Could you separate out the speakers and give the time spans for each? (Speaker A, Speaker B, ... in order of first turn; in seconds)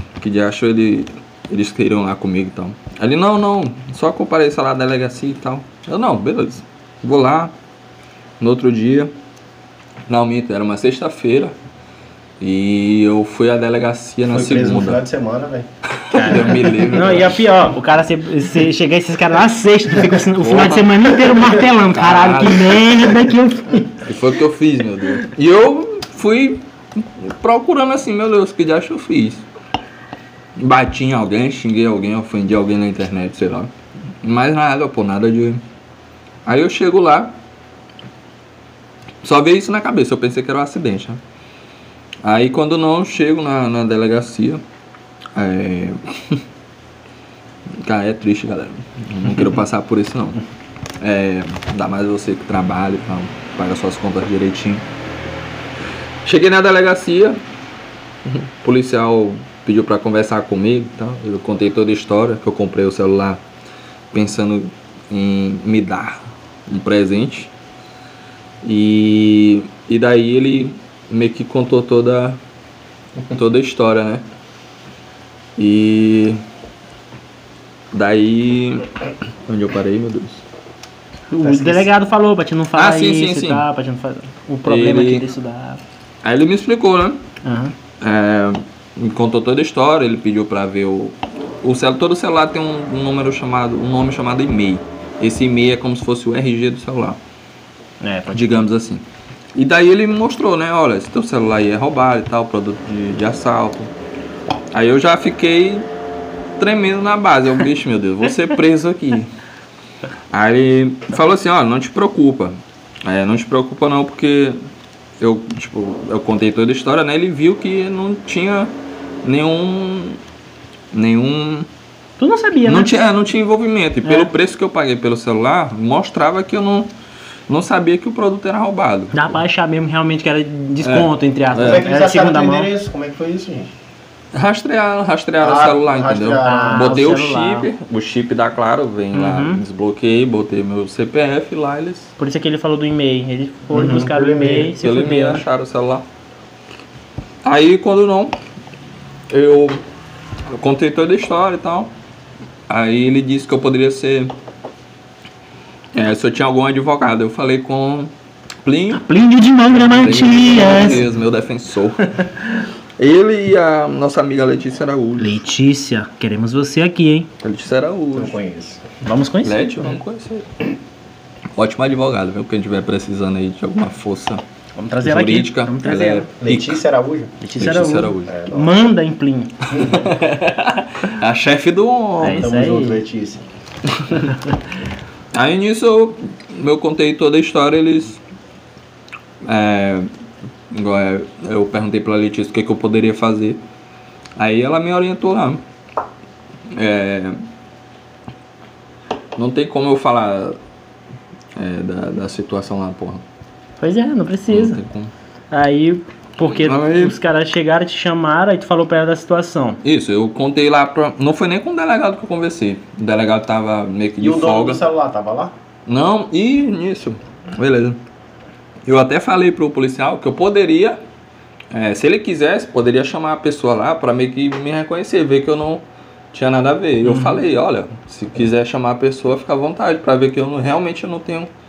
Speaker A: 0.2-7.5, 8.4-9.1, 10.1-11.6, 12.4-15.0, 16.0-17.4, 20.4-23.0, 24.0-29.4, 30.6-33.7, 34.2-35.6, 36.5-37.4, 39.2-41.2, 42.2-44.6, 45.4-46.4, 47.8-50.4, 51.0-54.9, 56.2-57.4, 58.2-63.4, 64.1-67.5, 68.6-72.4, 73.3-74.2, 75.6-76.4, 77.9-78.9, 79.5-80.4, 82.8-83.7, 84.7-85.3, 86.2-87.2, 88.0-97.2, 98.3-99.0, 99.5-103.9, 104.7-105.9, 106.6-109.3, 110.3-114.6, 115.2-118.7, 119.2-120.2, 120.9-121.7, 122.7-126.9, 127.5-129.3, 130.8-131.8, 134.3-142.1, 144.8-146.1, 147.4-148.3, 149.3-149.8, 150.5-151.9, 152.7-154.3, 155.9-158.1, 158.6-159.0, 159.7-162.4, 163.0-165.4, 167.4-168.4, 169.4-170.5, 171.6-174.4, 175.0-176.8, 177.6-178.3, 179.8-182.5, 184.0-184.3, 185.3-188.2, 189.4-190.1, 190.7-193.6, 194.4-195.6, 196.7-197.4, 199.4-200.6, 201.6-203.2, 204.5-205.1, 206.5-207.2, 209.8-214.8, 215.9-218.0, 218.9-221.0, 221.7-231.5
Speaker B: 14.3-15.7, 81.4-81.9, 131.6-133.7, 135.4-137.1, 143.7-144.7, 168.1-168.8, 176.4-177.3, 178.3-178.7, 182.3-183.4, 214.2-215.5
Speaker C: 16.1-23.9, 81.3-85.8, 87.4-87.7, 98.0-98.7, 122.2-123.0, 124.0-124.3, 129.1-132.7, 136.4-137.7, 139.1-139.6, 142.2-145.4, 158.9-161.0, 165.2-167.3, 169.0-169.9, 174.8-176.3, 177.4-179.8, 182.2-183.0, 203.8-204.8, 205.5-209.8, 227.0-227.4